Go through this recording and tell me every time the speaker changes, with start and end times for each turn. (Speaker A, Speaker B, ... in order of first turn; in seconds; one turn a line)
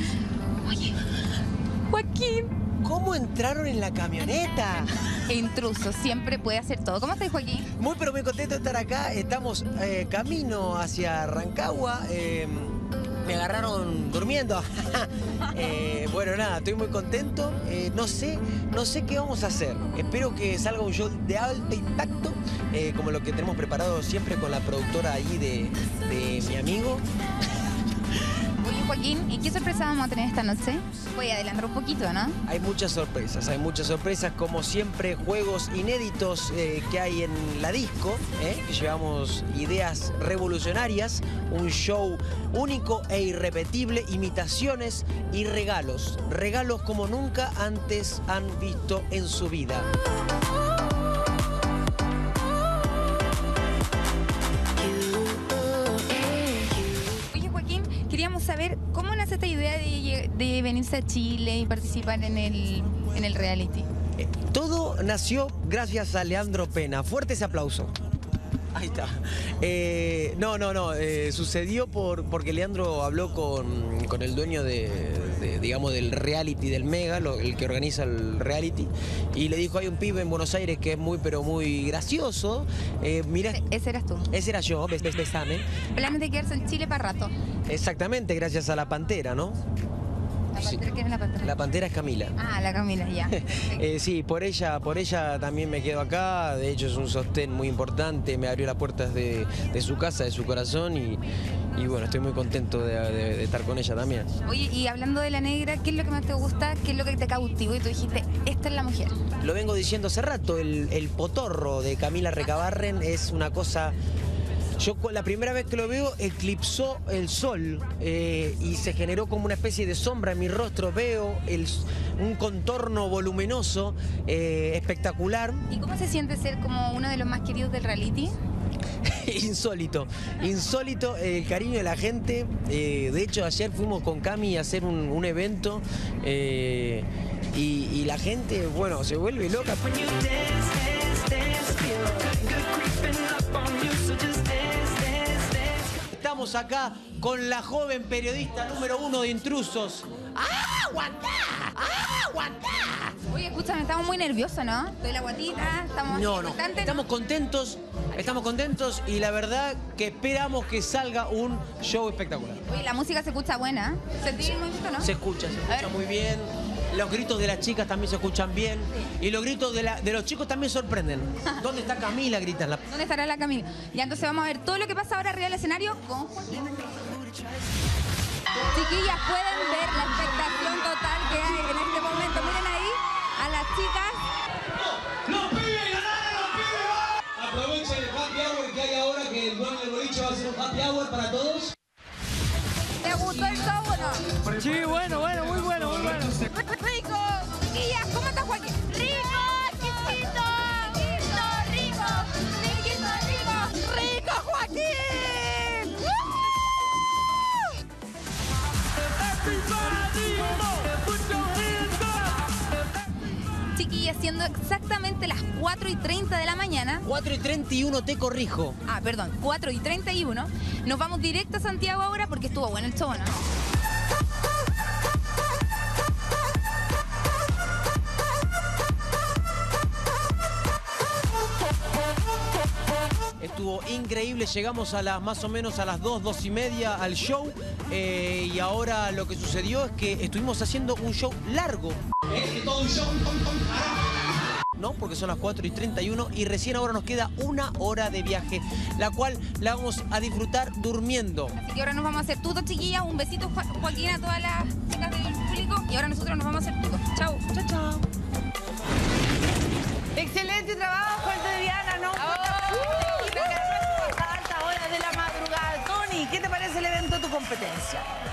Speaker A: 0.7-0.9
Speaker A: 1.9-2.5
Speaker B: 2.8-4.9
Speaker A: 5.3-7.7
Speaker B: 7.8-27.0
Speaker A: 28.6-32.4
Speaker B: 32.5-49.9
Speaker B: 54.9-56.7
Speaker A: 57.3-63.9
Speaker B: 64.2-67.9
Speaker B: 68.8-83.7
Speaker A: 83.5-84.3
Speaker B: 84.3-85.7
Speaker A: 86.0-87.3
Speaker B: 87.7-89.6
Speaker A: 90.5-91.6
Speaker B: 90.6-90.8
Speaker B: 91.4-92.3
Speaker A: 92.4-93.9
Speaker B: 93.8-101.2
Speaker B: 101.8-104.3
Speaker A: 104.5-109.1
Speaker B: 109.4-113.9
Speaker B: 114.8-125.7
Speaker A: 125.7-128.3
Speaker B: 129.1-140.0
Speaker B: 146.0-153.1
Speaker A: 153.3-157.1
Speaker B: 156.1-162.6
Speaker A: 162.7-165.1
Speaker B: 165.0-172.8
Speaker A: 165.7-165.9
Speaker A: 172.9-176.4
Speaker A: 178.7-184.2
Speaker C: 185.0-191.7
Speaker A: 193.0-194.2
Speaker D: 195.0-195.6
Speaker A: 196.4-206.0
Speaker B: 209.7-210.6
Speaker A: 211.4-211.9
Speaker A: 213.8-217.1
Speaker B: 217.1-218.8
Speaker A: 218.9-223.3
Speaker B: 233.4-242.0
Speaker B: 244.8-251.6
Speaker A: 251.5-257.4
Speaker D: 257.5-258.0
Speaker D: 260.1-268.1
Speaker A: 262.2-264.0